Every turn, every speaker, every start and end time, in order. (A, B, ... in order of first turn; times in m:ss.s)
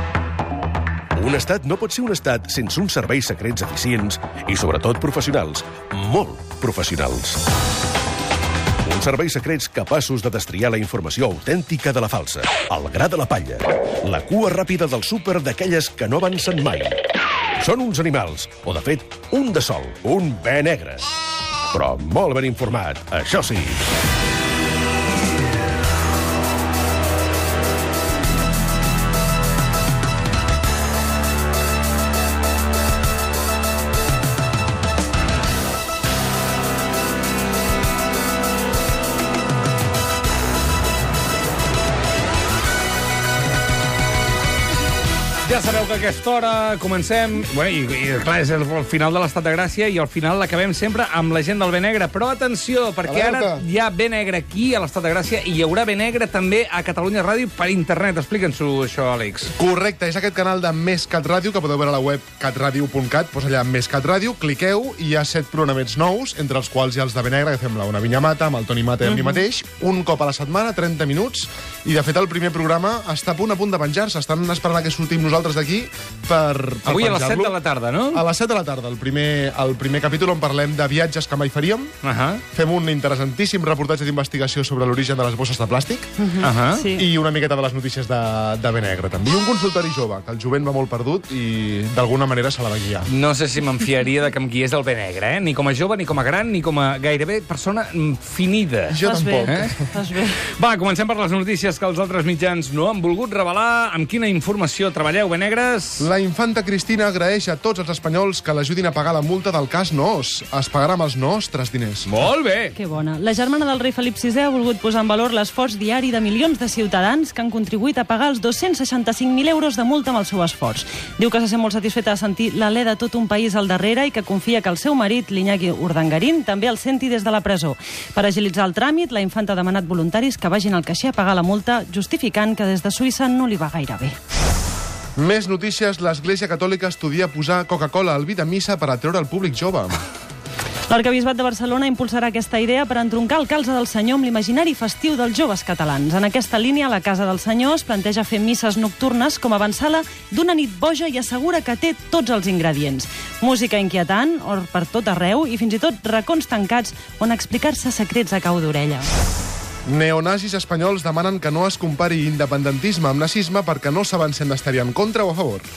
0:01.1-0:07.5 A
0:08.8-0:17.0 A
0:17.6-0:21.1 A
0:21.7-0:23.9 A
0:45.4-0:59.5 B
0:53.0-0:53.6 C
0:59.6-1:17.6 C
1:16.8-1:18.2 B
1:18.1-1:21.9 C
1:22.0-1:22.4 B
1:22.5-1:26.1 C
1:26.2-1:27.1 D
1:26.4-1:26.9 B
1:26.9-1:33.1 C
1:33.1-1:39.7 B
1:38.9-1:39.8 C
1:39.0-1:40.4 D
1:40.6-1:46.1 B
1:46.0-1:52.1 C
1:52.1-1:52.7 B
1:52.7-2:14.2 D
2:15.2-2:20.0 C
2:20.9-2:39.1 D
2:39.8-2:45.6 C